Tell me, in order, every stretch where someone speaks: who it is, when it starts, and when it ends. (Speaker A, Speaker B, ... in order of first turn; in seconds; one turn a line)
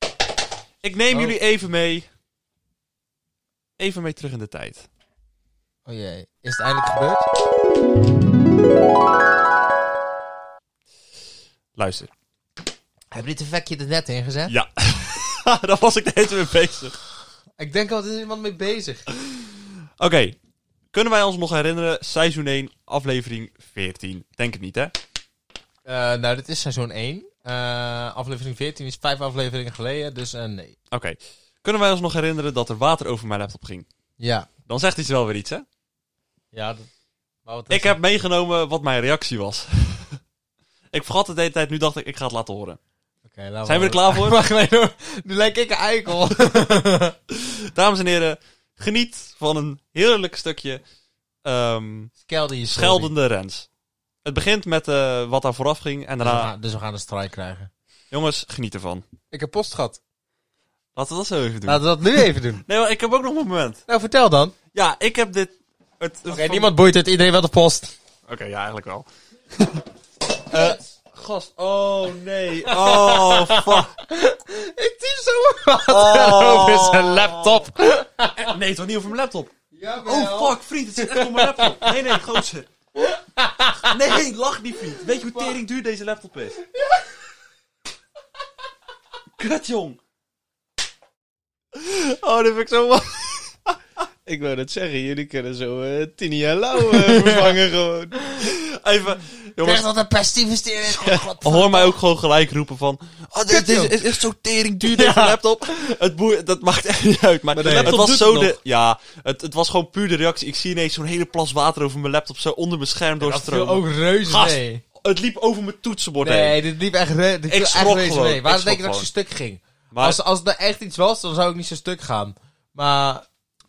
Speaker A: 0.8-2.1
Speaker B: 1.1-1.4
Speaker A: 3.8-4.9
Speaker B: 5.9-7.3
Speaker A: 11.8-12.1
Speaker B: 13.1-14.5
Speaker A: 14.5-17.0
Speaker B: 17.6-19.1
Speaker A: 19.2-20.4
Speaker A: 20.9-24.9
Speaker B: 25.9-30.8
Speaker A: 30.9-33.9
Speaker B: 34.2-34.5
Speaker A: 34.7-35.6
Speaker B: 36.5-36.9
Speaker B: 37.5-37.9
Speaker A: 37.7-40.2
Speaker A: 40.9-42.8
Speaker B: 43.3-47.1
Speaker A: 43.6-44.4
Speaker A: 46.4-46.7
Speaker A: 47.3-50.8
Speaker A: 51.4-52.1
Speaker B: 52.2-53.1
Speaker A: 52.7-53.6
Speaker A: 54.2-56.5
Speaker B: 56.2-57.7
Speaker A: 58.1-59.0
Speaker B: 59.3-60.0
Speaker A: 60.9-63.8
Speaker B: 61.6-62.6
Speaker B: 63.9-64.5
Speaker A: 64.7-66.7
Speaker B: 66.3-67.9
Speaker A: 68.3-69.0
Speaker A: 69.6-69.8
Speaker A: 70.5-73.9
Speaker B: 72.7-78.5
Speaker A: 75.9-77.6
Speaker A: 78.4-79.5
Speaker B: 79.7-82.2
Speaker A: 80.0-82.7
Speaker B: 83.0-84.0
Speaker A: 83.9-86.6
Speaker B: 85.0-85.5
Speaker B: 86.6-87.0
Speaker A: 89.4-90.0
Speaker A: 91.7-93.7
Speaker C: 94.2-98.2
Speaker B: 97.0-97.5
Speaker B: 98.2-98.5
Speaker A: 98.4-99.9
Speaker B: 99.6-101.9
Speaker A: 101.4-116.6
Speaker B: 103.5-104.2
Speaker B: 104.8-105.9
Speaker C: 107.5-108.5
Speaker B: 107.6-108.0
Speaker B: 113.2-114.8
Speaker B: 116.2-123.2
Speaker A: 117.5-119.1
Speaker A: 119.9-120.2